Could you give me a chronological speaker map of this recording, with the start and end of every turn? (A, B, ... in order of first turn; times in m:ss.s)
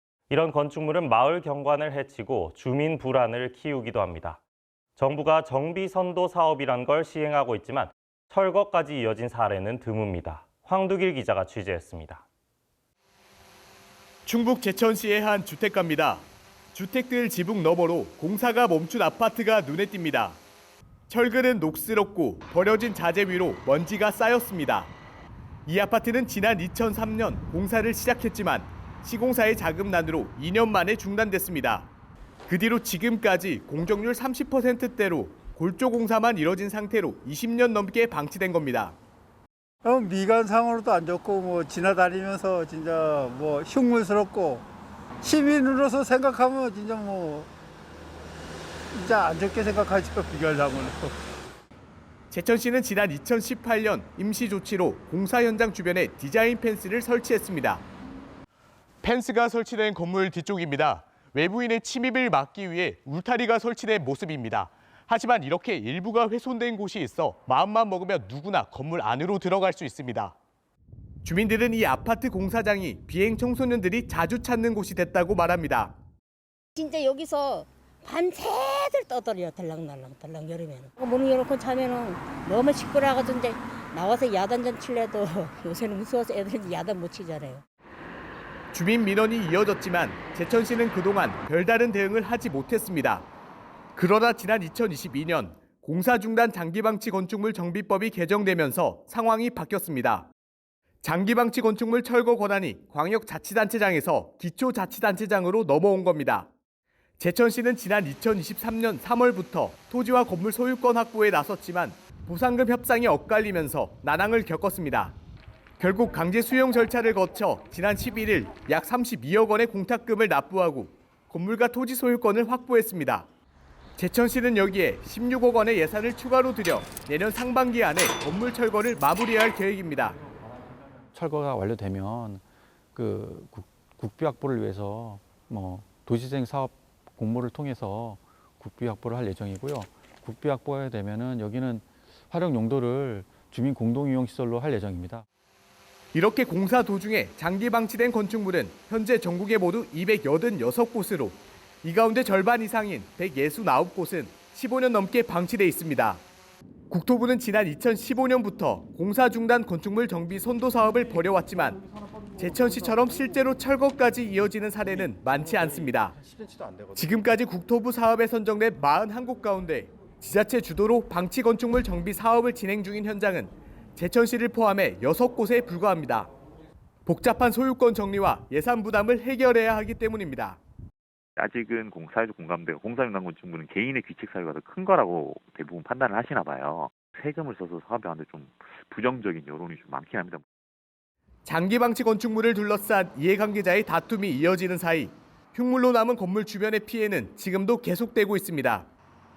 0:00.3-0:04.4 A
0:05.0-0:12.2 A
0:14.2-0:20.4 B
0:21.1-0:24.9 B
0:25.6-0:31.9 B
0:32.5-0:39.0 B
0:39.8-0:44.6 C
0:45.2-0:47.5 C
0:48.9-0:51.1 C
0:52.3-0:57.8 B
0:59.0-1:10.4 B
1:11.2-1:15.9 B
1:16.8-1:27.6 D
1:28.7-1:33.3 B
1:33.9-1:40.3 B
1:41.0-1:46.5 B
1:47.2-1:55.1 B
1:55.8-2:03.3 B
2:04.0-2:10.2 B
2:11.1-2:12.4 E
2:12.9-2:25.2 E
2:26.1-2:36.2 B
2:36.9-2:41.8 B
2:42.4-2:46.2 B
2:46.9-2:56.3 B
2:57.0-3:00.6 B
3:01.4-3:10.4 F
3:11.4-3:18.9 B